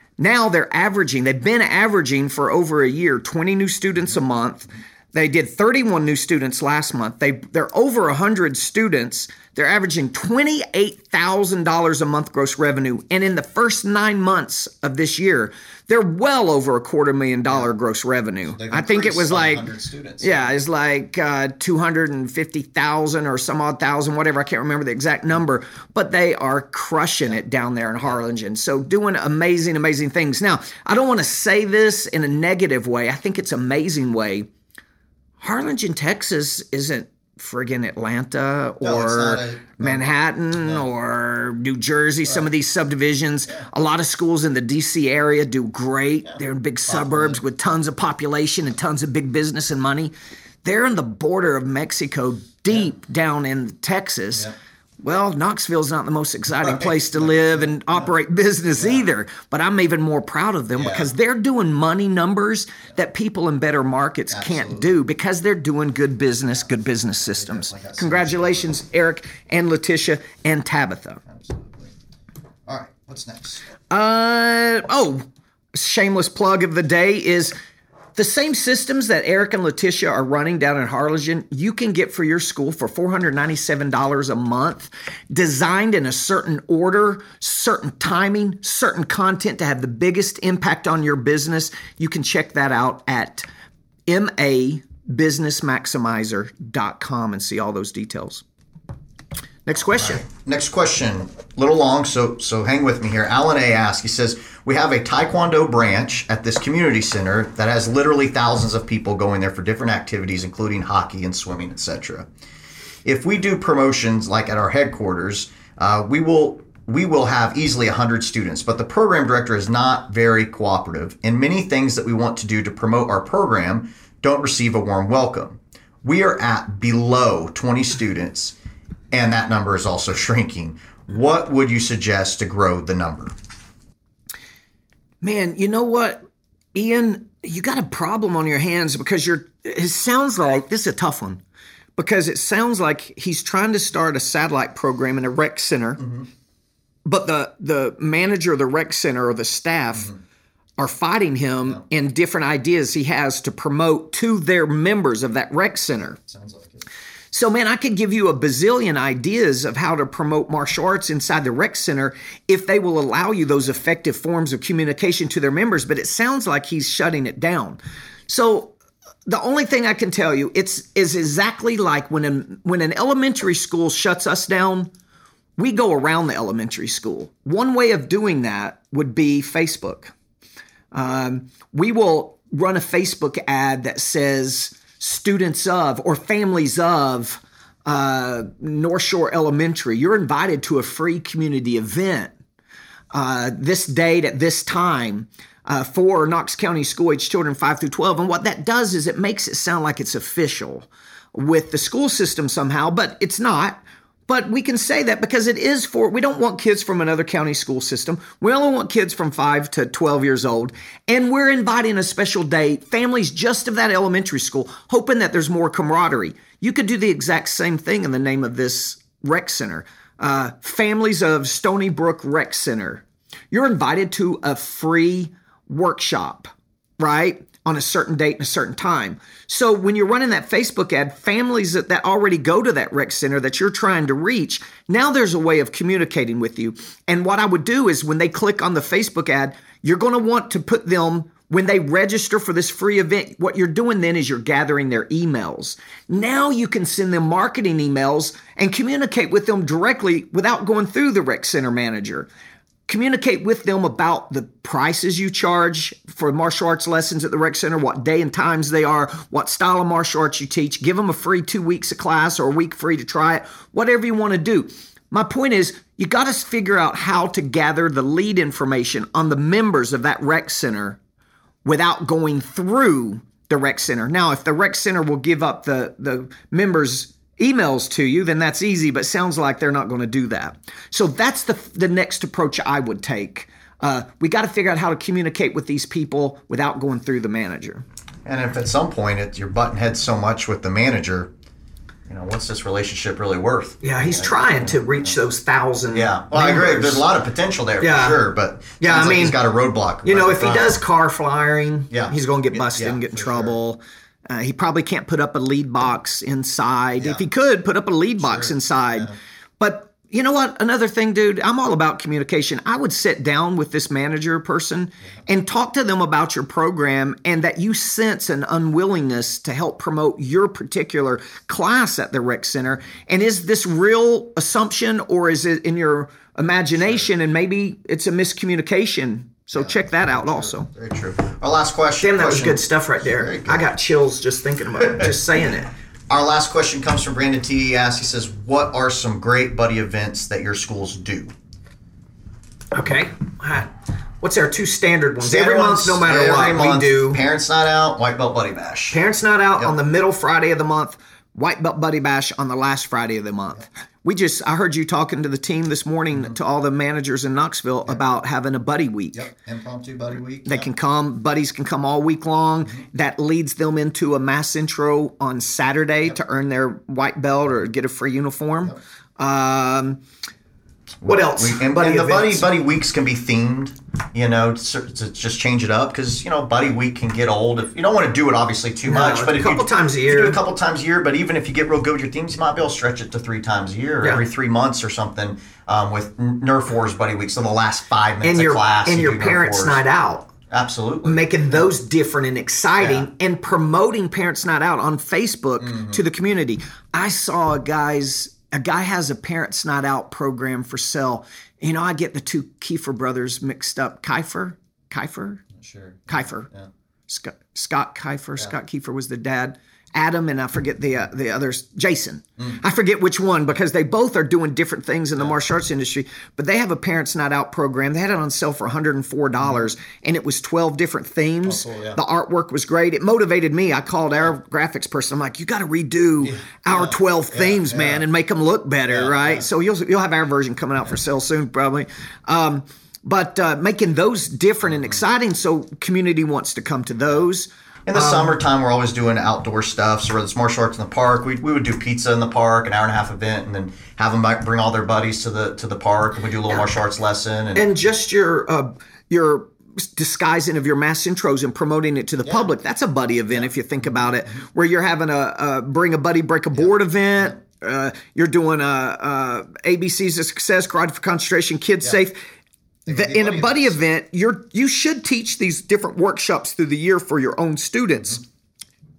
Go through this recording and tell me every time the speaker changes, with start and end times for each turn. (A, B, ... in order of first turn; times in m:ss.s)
0:00.2-0:19.7 A
0:18.5-0:20.5 B
0:20.2-0:34.5 A
0:35.4-0:50.1 A
0:38.8-0:40.0 B
0:50.6-1:11.2 A
1:00.8-1:01.1 B
1:04.3-1:04.9 B
1:07.5-1:08.6 B
1:11.3-1:11.9 B
1:12.7-1:13.6 B
1:13.9-1:15.2 A
1:15.8-1:17.5 A
1:18.2-1:33.4 A
1:34.1-1:38.4 A
1:39.7-1:40.3 A
1:40.1-1:52.3 B
1:53.0-2:08.6 B
2:09.1-2:13.3 B
2:15.2-2:16.2 A
2:16.8-2:21.4 A
2:22.0-2:26.2 A
2:27.1-2:30.2 A
2:30.8-2:36.2 A
2:36.3-2:36.8 B
2:37.3-2:48.8 A
2:49.3-2:54.9 A
2:55.6-3:00.1 A
3:00.9-3:12.3 A
3:13.1-4:12.3 A
4:12.9-4:31.0 A
4:31.6-4:47.8 A
4:48.2-4:51.3 B
4:52.1-4:55.2 B
4:53.8-4:57.1 A
4:55.9-5:00.8 B
4:57.8-4:58.3 A
4:58.8-4:59.4 A
5:00.0-5:30.7 A
5:01.9-5:03.6 B
5:07.0-5:07.2 B
5:08.2-5:09.1 B
5:29.6-5:33.7 B
5:32.0-5:35.7 A
5:36.1-5:41.3 B
5:42.7-5:47.2 A
5:45.2-5:49.0 B
5:48.9-5:59.3 A
5:59.2-6:00.7 B
6:00.5-6:10.0 A
6:11.0-6:29.8 B
6:11.0-6:12.5 A
6:18.9-6:20.4 A
6:28.2-6:30.3 A
6:30.5-6:31.3 B
6:31.0-6:45.5 A
6:32.8-6:33.0 B
6:35.6-6:36.0 B
6:45.6-6:46.6 B
6:46.1-6:46.5 A
6:47.1-7:18.4 A
7:01.6-7:02.0 B
7:07.4-7:08.0 B
7:17.9-7:27.6 B
7:27.6-7:42.2 A
7:42.9-7:43.7 B
7:42.9-7:48.2 A